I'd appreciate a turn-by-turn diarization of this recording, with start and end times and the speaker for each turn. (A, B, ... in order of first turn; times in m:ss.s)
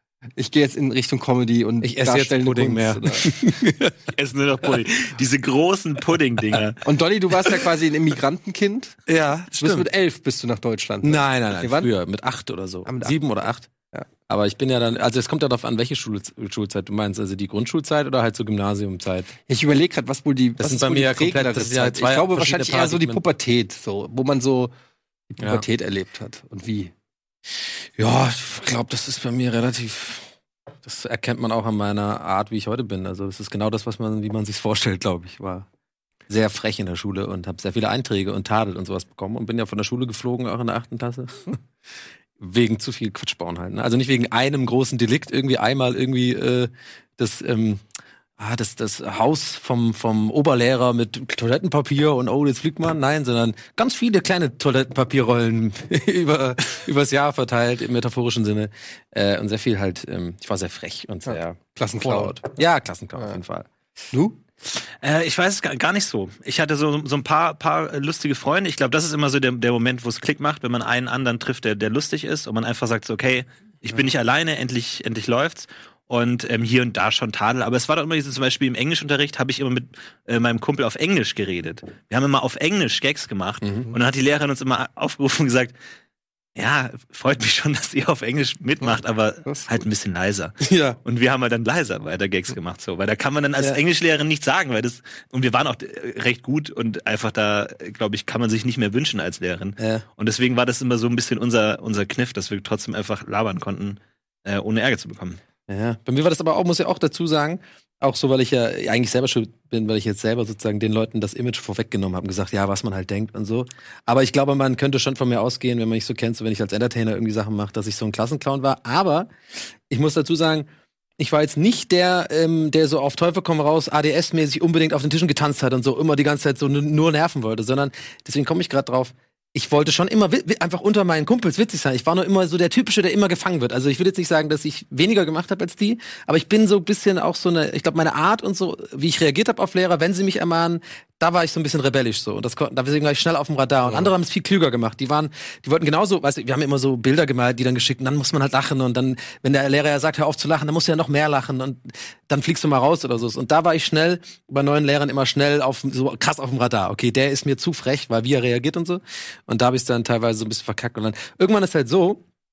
0:00.4-0:03.3 A
0:01.8-0:04.1 B
0:04.1-0:06.8 C
0:06.8-0:09.0 A
0:09.1-0:09.9 B
0:09.5-0:11.9 A
0:11.0-0:13.7 B
0:12.9-0:13.2 A
0:14.3-0:19.3 B
0:19.5-0:24.7 A
0:20.6-0:23.2 B
0:25.3-0:26.9 A
0:28.0-0:30.3 B
0:30.8-0:35.7 B
0:36.3-0:41.6 B
0:42.4-0:47.8 B
0:48.4-1:03.7 B
1:01.3-1:02.4 A
1:04.1-1:04.4 A
1:05.0-1:25.8 C
1:23.6-1:23.9 B
1:26.6-1:45.4 C
1:30.6-1:31.0 B
1:39.8-1:40.0 B
1:45.7-1:59.3 B
1:59.9-2:00.7 B
2:01.2-2:42.2 B